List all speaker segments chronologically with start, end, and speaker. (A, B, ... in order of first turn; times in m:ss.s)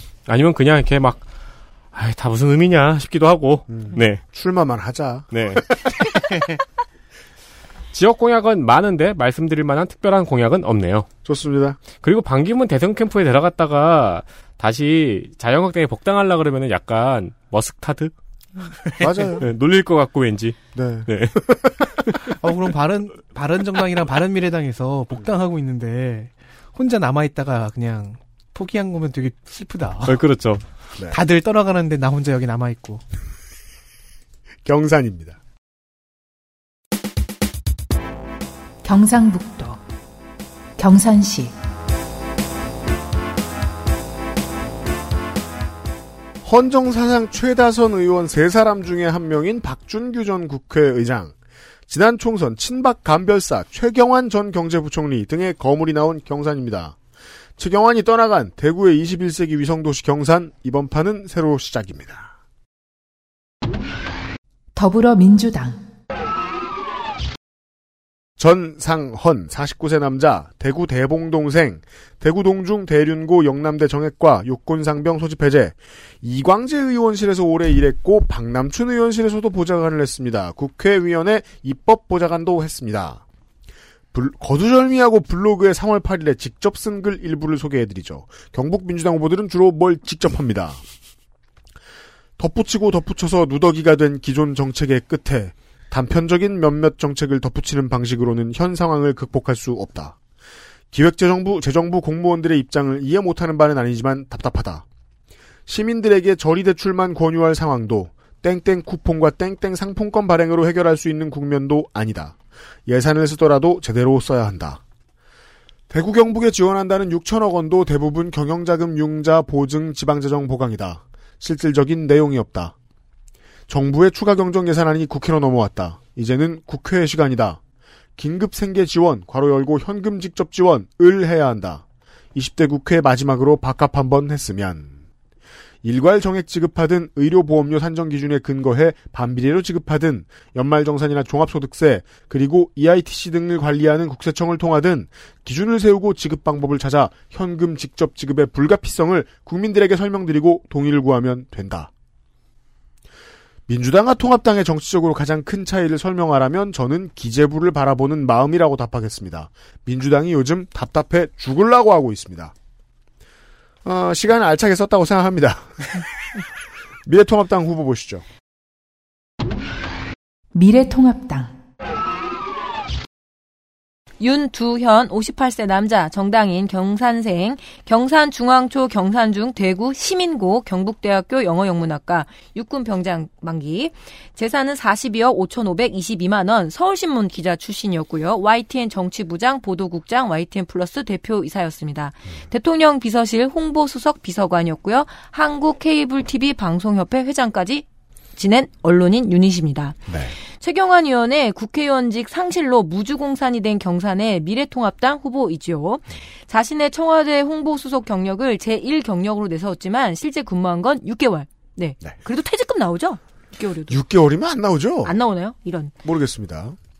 0:00.3-0:01.2 A
0:01.9-0:04.2 A
0:03.7-0:06.1 B
0:05.3-0:05.6 A
0:07.9-0:11.1 A
0:11.2-0:11.8 B
0:12.0-0:18.1 A
0:19.0-0:19.4 B
0:19.4-0:22.3 A
0:20.7-0:21.7 B
0:22.4-0:30.2 C
0:30.0-0:30.6 A
0:31.1-0:33.0 C
0:34.6-0:35.4 B
0:38.8-0:39.8 D
0:40.8-0:41.5 D
0:46.4-0:51.3 B
0:51.9-0:57.0 B
0:57.6-1:02.3 B
1:04.7-1:05.8 D
1:08.4-1:23.2 B
1:24.1-1:30.8 B
1:32.4-1:40.2 B
1:40.9-1:44.8 B
1:45.7-1:54.8 B
1:55.9-2:02.7 B
2:03.7-2:07.6 B
2:08.2-2:14.9 B
2:15.8-2:31.9 B
2:33.7-2:42.5 B
2:43.8-2:46.4 B
2:47.0-2:48.2 B
2:50.5-2:51.5 D
2:54.2-3:17.8 E
3:18.4-3:20.0 E
3:20.1-3:20.3 B
3:20.6-3:34.0 E
3:33.9-3:35.1 B
3:35.0-3:35.9 E
3:36.0-3:36.8 B